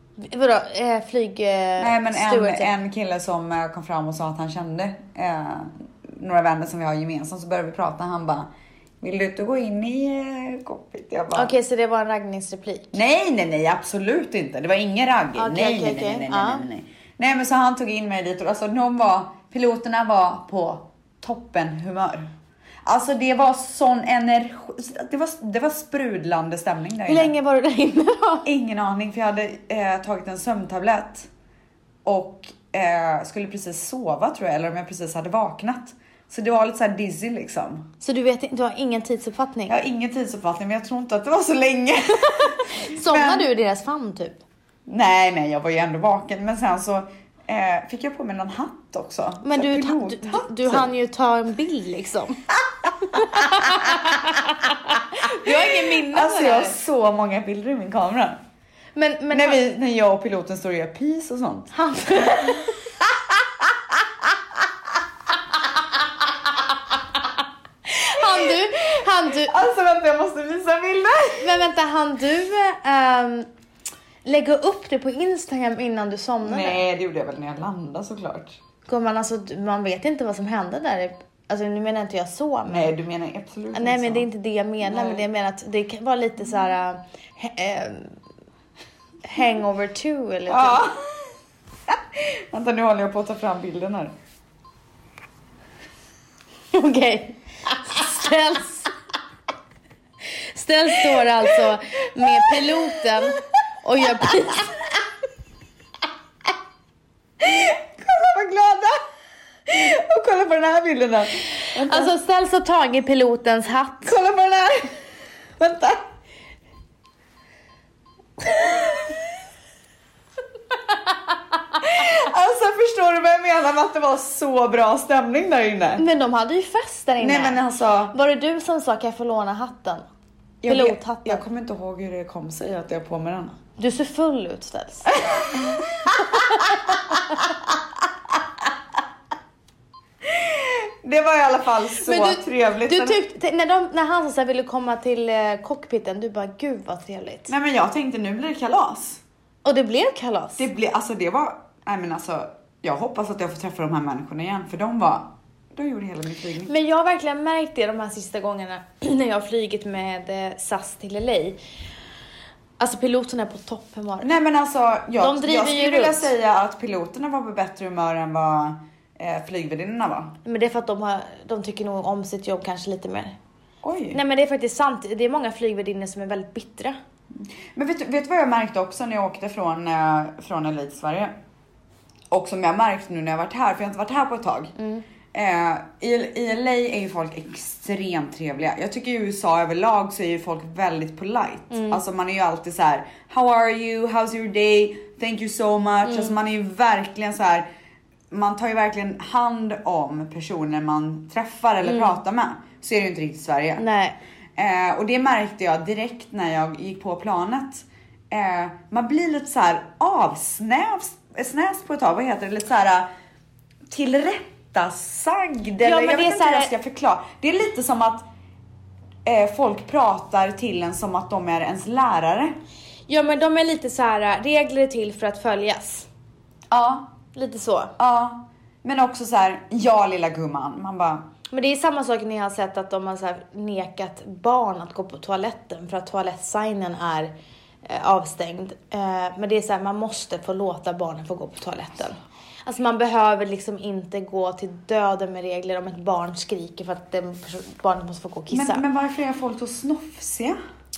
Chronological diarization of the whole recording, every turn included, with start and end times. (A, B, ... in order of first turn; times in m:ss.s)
0:00.2-0:02.7 A
0:01.8-0:08.5 B
0:09.0-0:11.5 B
0:11.3-0:12.9 A
0:12.9-0:22.3 B
0:15.4-0:16.6 A
0:22.8-0:27.3 B
0:27.0-0:28.5 A
0:28.4-0:31.3 B
0:32.0-0:37.9 B
0:38.0-0:39.7 A
0:39.7-0:43.5 B
0:42.2-0:44.4 A
0:44.9-0:50.9 B
0:49.4-0:52.4 A
0:53.0-0:56.8 A
0:53.0-0:54.4 B
0:55.2-0:58.4 B
0:58.9-0:59.6 A
0:59.3-1:03.7 B
1:01.7-1:02.7 A
1:07.8-1:09.6 A
1:09.4-1:11.5 B
1:11.4-1:13.5 A
1:14.2-1:16.8 A
1:16.4-1:18.6 B
1:18.9-1:22.9 A
1:22.7-1:24.3 B
1:23.7-1:28.1 A
1:24.9-1:25.2 B
1:29.2-1:30.9 A
1:30.5-1:31.3 B
1:31.9-1:34.1 B
1:36.7-1:38.9 A
1:40.4-1:44.7 A
1:42.5-1:43.0 B
1:47.4-1:49.0 B
1:49.7-1:52.1 B
1:51.8-1:54.2 A
1:54.0-1:54.9 B
1:55.6-1:56.0 B
1:58.5-1:59.1 B
2:01.8-2:06.0 B
2:06.0-2:10.0 A
2:07.2-2:08.1 B
2:10.6-2:13.6 B
2:10.7-2:11.4 A
2:13.8-2:15.1 A
2:15.1-2:17.4 B
2:16.2-2:17.2 A
2:20.2-2:23.2 B
2:22.0-2:27.5 A
2:27.5-2:29.2 B
2:29.6-2:30.6 A
2:30.6-2:36.7 B
2:36.6-2:41.6 A
2:42.8-2:44.3 A
2:44.2-2:50.4 B
2:45.2-2:46.3 A
2:50.4-2:53.4 A
2:53.8-2:54.2 B
2:54.1-2:57.0 A
2:57.7-3:01.3 B
3:02.3-3:04.7 B
3:04.8-3:05.0 A
3:05.3-3:17.7 B
3:11.7-3:12.0 A
3:16.0-3:16.4 A
3:18.3-3:23.8 B
3:21.8-3:22.2 A
3:23.8-3:24.2 A
3:24.6-3:33.1 B
3:33.9-3:38.3 B
3:35.8-3:36.7 A
3:39.2-3:42.6 B
3:43.1-3:46.1 A
3:46.7-3:47.1 B
3:47.3-3:47.9 A
3:48.0-3:51.2 B
3:51.5-3:57.3 A
3:57.8-4:08.8 A
4:08.5-4:10.6 B